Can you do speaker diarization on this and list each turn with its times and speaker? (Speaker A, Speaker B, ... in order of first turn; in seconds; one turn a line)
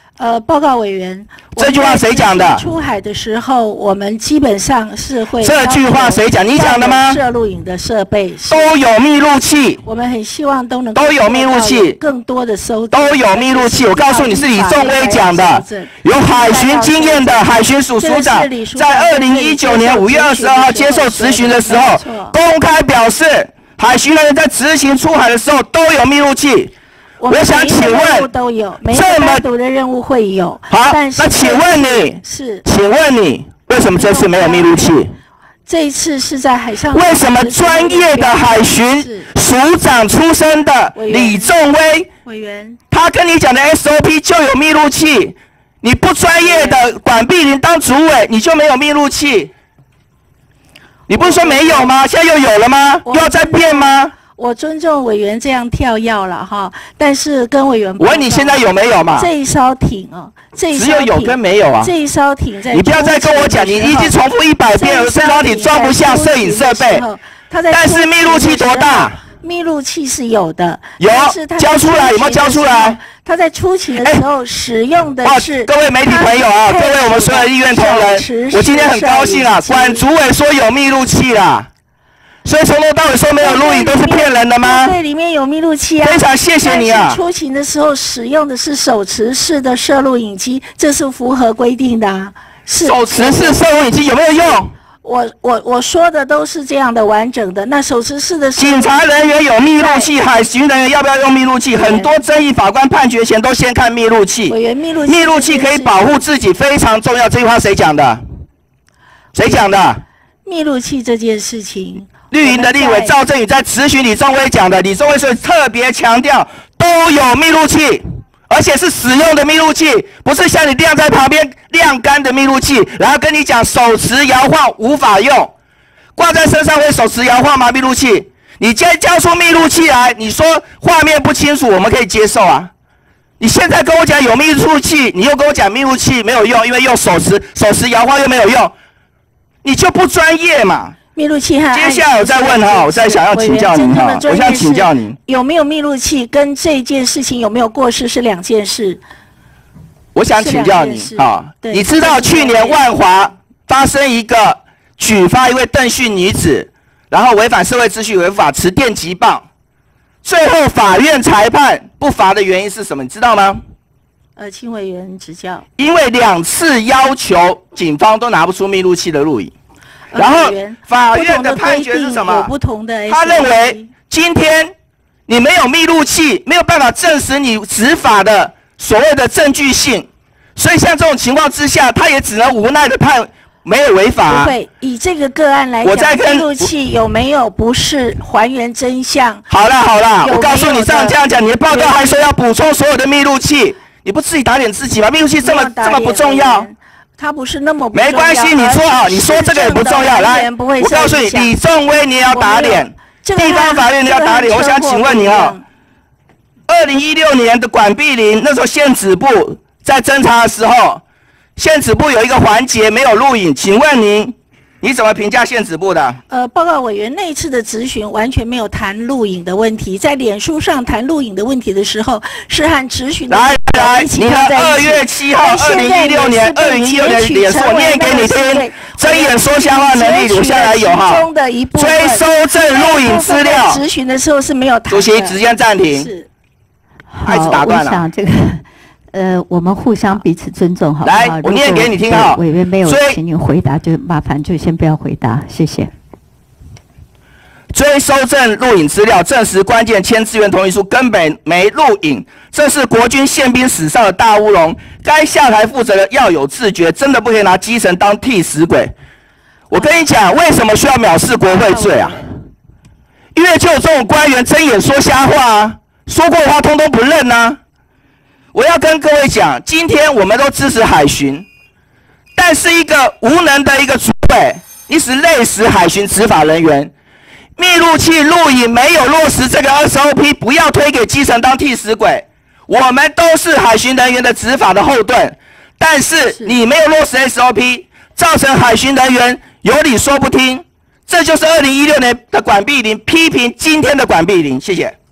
Speaker A: 0.2-8.7
Speaker B: 1.6-2.6
Speaker B: 5.4-7.2
Speaker B: 8.5-9.8
Speaker A: 9.8-22.4
Speaker B: 10.9-12.0
Speaker B: 12.9-26.7
Speaker A: 27.2-32.6
Speaker B: 27.3-28.3
Speaker B: 28.9-29.4
Speaker B: 30.7-35.1
Speaker A: 33.8-35.0
Speaker A: 35.7-39.3
Speaker B: 36.9-42.1
Speaker A: 41.0-41.5
Speaker A: 42.2-42.8
Speaker B: 42.9-49.5
Speaker A: 46.4-46.9
Speaker B: 51.1-54.1
Speaker A: 51.1-52.0
Speaker A: 53.0-58.6
Speaker B: 58.0-59.3
Speaker A: 59.1-64.2
Speaker B: 60.7-61.9
Speaker B: 62.7-67.0
Speaker A: 64.7-80.1
Speaker B: 67.7-69.2
Speaker B: 71.0-73.0
Speaker B: 74.0-74.2
Speaker B: 75.2-81.7
Speaker B: 82.5-85.0
Speaker A: 83.4-93.6
Speaker B: 86.0-87.2
Speaker B: 92.8-94.7
Speaker A: 95.0-100.1
Speaker B: 98.6-104.6
Speaker A: 101.7-102.1
Speaker A: 104.5-106.0
Speaker B: 105.1-108.2
Speaker B: 109.3-110.0
Speaker A: 110.5-113.2
Speaker B: 112.3-125.5
Speaker B: 126.2-132.7
Speaker B: 133.4-138.7
Speaker B: 139.6-141.0
Speaker A: 141.2-149.0
Speaker B: 141.7-145.2
Speaker B: 150.2-159.4
Speaker A: 150.4-152.8
Speaker B: 160.2-163.6
Speaker A: 164.4-165.7
Speaker B: 165.8-169.5
Speaker A: 170.1-173.9
Speaker B: 170.1-172.5
Speaker B: 173.1-174.7
Speaker B: 175.3-184.5
Speaker A: 184.3-189.4
Speaker B: 185.8-186.7
Speaker B: 189.5-196.7
Speaker A: 190.2-192.2
Speaker A: 195.4-201.6
Speaker B: 197.9-205.6
Speaker A: 202.3-205.7
Speaker B: 206.7-211.0
Speaker B: 211.6-216.2
Speaker A: 216.3-236.3
Speaker B: 223.3-233.8
Speaker B: 234.9-236.1
Speaker C: 237.1-245.9
Speaker B: 237.2-238.1
Speaker B: 241.0-243.2
Speaker B: 247.7-258.9
Speaker B: 259.7-262.3
Speaker A: 261.6-262.2
Speaker B: 263.3-267.6
Speaker B: 268.5-271.5
Speaker B: 272.4-276.9
Speaker B: 277.6-294.9